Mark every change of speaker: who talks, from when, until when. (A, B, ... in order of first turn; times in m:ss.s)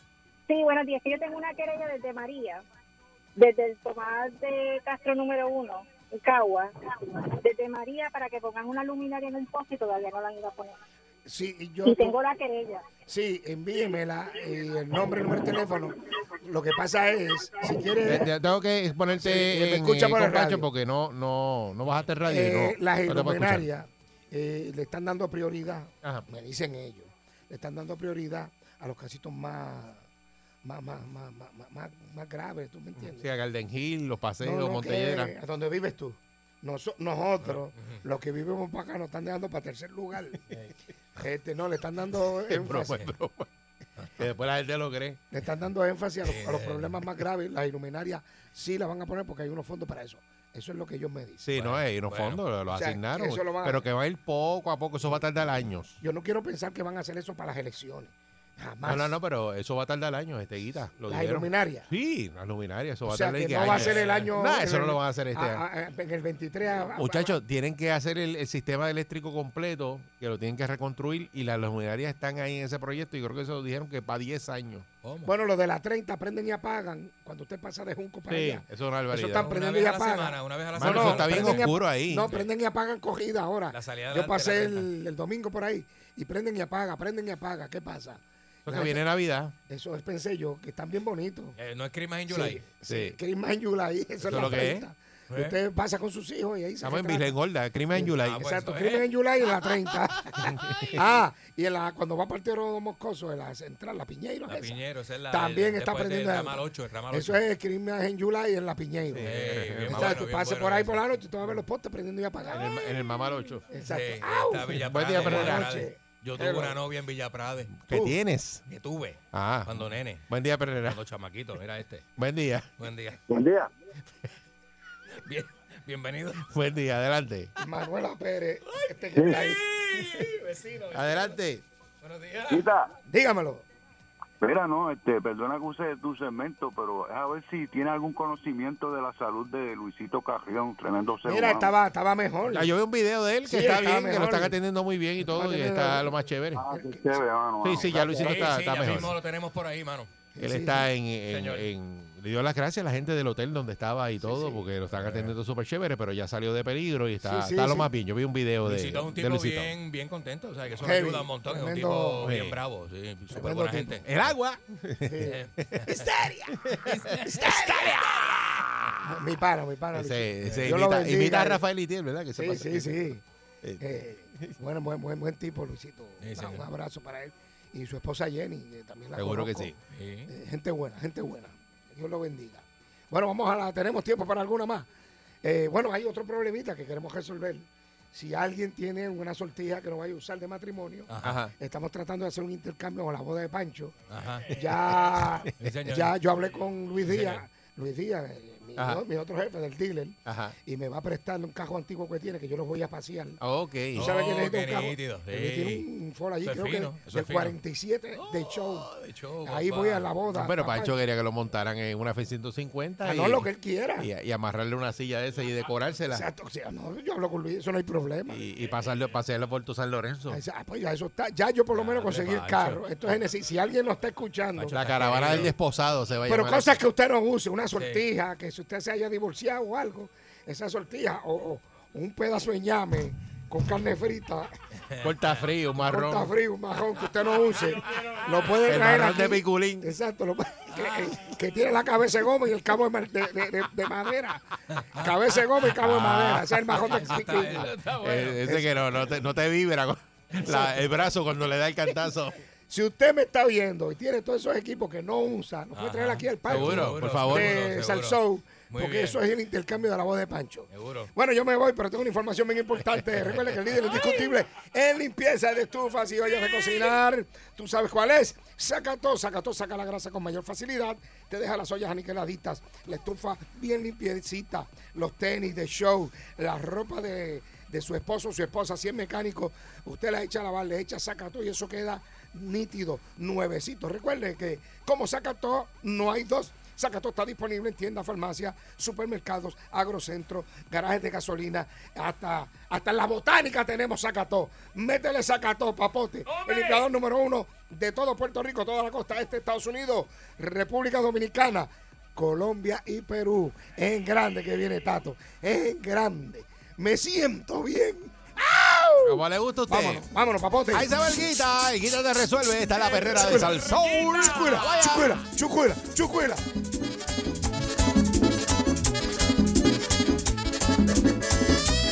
0:00.5-0:02.6 A
0:03.4-0:06.7 A
0:07.3-0:10.8 A
0:11.3-0:12.2 B
0:11.8-0:12.9 A
0:13.1-0:18.3 B
0:18.1-0:23.7 C
0:19.1-0:20.7 B
0:22.3-0:30.0 B
0:30.6-0:33.3 B
0:33.0-0:35.3 C
0:34.4-0:40.4 B
0:37.4-0:37.9 D
0:41.2-0:43.1 B
0:42.5-0:43.5 C
0:44.2-0:45.2 C
0:45.3-0:51.5 B
0:46.2-0:47.1 D
0:51.4-0:56.0 C
0:51.5-0:52.4 D
0:52.7-0:53.9 B
0:56.0-0:59.2 B
0:58.8-1:05.6 C
1:01.1-1:01.9 B
1:03.1-1:07.4 B
1:03.6-1:04.3 D
1:06.9-1:14.9 C
1:15.0-1:15.3 D
1:15.2-1:29.0 B
1:18.3-1:19.5 C
1:19.4-1:21.7 D
1:20.7-1:22.3 C
1:23.7-1:24.9 D
1:28.7-1:29.5 C
1:29.7-1:31.6 B
1:31.6-1:32.7 D
1:32.3-1:37.4 B
1:32.9-1:33.2 C
1:34.2-1:34.7 D
1:34.2-1:34.9 C
1:35.3-1:35.6 D
1:36.8-1:38.4 C
1:37.9-1:52.8 B
1:38.2-1:39.1 D
1:40.4-1:41.0 C
1:44.5-1:47.4 D
1:49.1-1:50.2 C
1:49.2-1:51.0 D
1:52.5-1:53.6 C
1:53.7-1:56.8 B
1:53.8-1:57.8 D
1:54.8-1:55.8 C
1:57.9-1:58.6 C
1:57.9-1:58.2 B
1:58.7-2:00.2 D
1:59.3-2:01.0 C
2:00.8-2:02.1 D
2:02.2-2:02.7 C
2:02.8-2:03.2 D
2:03.3-2:03.7 E
2:05.2-2:06.5 D
2:06.4-2:07.5 C
2:07.6-2:09.6 B
2:08.8-2:11.4 D
2:10.9-2:11.6 C
2:12.0-2:12.7 D
2:12.5-2:12.9 E
2:13.1-2:13.7 B
2:14.4-2:21.8 E
2:21.2-2:22.7 B
2:22.5-2:26.7 C
2:23.5-2:24.6 B
2:25.2-2:27.2 B
2:26.5-2:28.2 E
2:27.6-2:29.2 C
2:28.1-2:30.1 D
2:30.4-2:30.9 B
2:30.4-2:39.8 C
2:31.3-2:31.7 D
2:34.2-2:34.7 B
2:34.9-2:35.4 D
2:37.2-2:37.9 B
2:38.6-2:44.3 D
2:40.8-2:42.4 B
2:42.2-2:42.6 C
2:43.3-2:44.0 B
2:44.0-2:46.0 C
2:45.0-2:46.5 B
2:45.2-2:48.0 D
2:46.5-2:49.0 C
2:47.3-2:47.8 B
2:49.1-2:51.6 B
2:49.9-2:54.5 C
2:50.4-2:50.8 D
2:52.4-2:53.2 B
2:53.8-2:59.7 B
2:56.2-2:56.7 D
2:59.2-2:59.8 C
2:59.9-3:00.3 D
3:00.3-3:04.9 B
3:05.4-3:13.9 B
3:11.1-3:11.4 D
3:11.2-3:11.5 C
3:14.1-3:14.6 D
3:14.5-3:23.4 B
3:15.4-3:16.2 D
3:17.0-3:17.4 D
3:18.8-3:19.0 C
3:20.3-3:20.6 C
3:23.4-3:24.1 C
3:24.0-3:28.9 B
3:24.0-3:25.9 D
3:26.4-3:27.6 D
3:28.2-3:30.4 D
3:29.4-3:31.0 B
3:30.3-3:33.5 C
3:33.0-3:34.1 B
3:34.0-3:36.3 C
3:36.1-3:38.4 B
3:38.3-3:40.4 C
3:40.3-3:45.5 B
3:41.7-3:43.2 D
3:44.6-3:45.5 D
3:44.7-3:46.8 C
3:46.3-3:54.5 B
3:47.8-3:48.0 D
3:54.9-3:55.5 D
3:55.0-3:56.3 C
3:55.8-4:07.7 B
3:57.4-3:59.2 D
3:58.6-3:59.9 C
4:00.7-4:01.2 D
4:04.8-4:08.6 D
4:05.8-4:06.8 C
4:08.0-4:12.4 C
4:08.5-4:08.8 B
4:10.4-4:10.8 B
4:12.7-5:10.9 B
4:15.7-4:19.2 D
4:16.5-4:17.6 C
4:20.7-4:21.1 D
4:56.4-4:56.8 D
5:09.0-5:10.0 C
5:10.7-5:15.2 C
5:13.0-5:16.4 B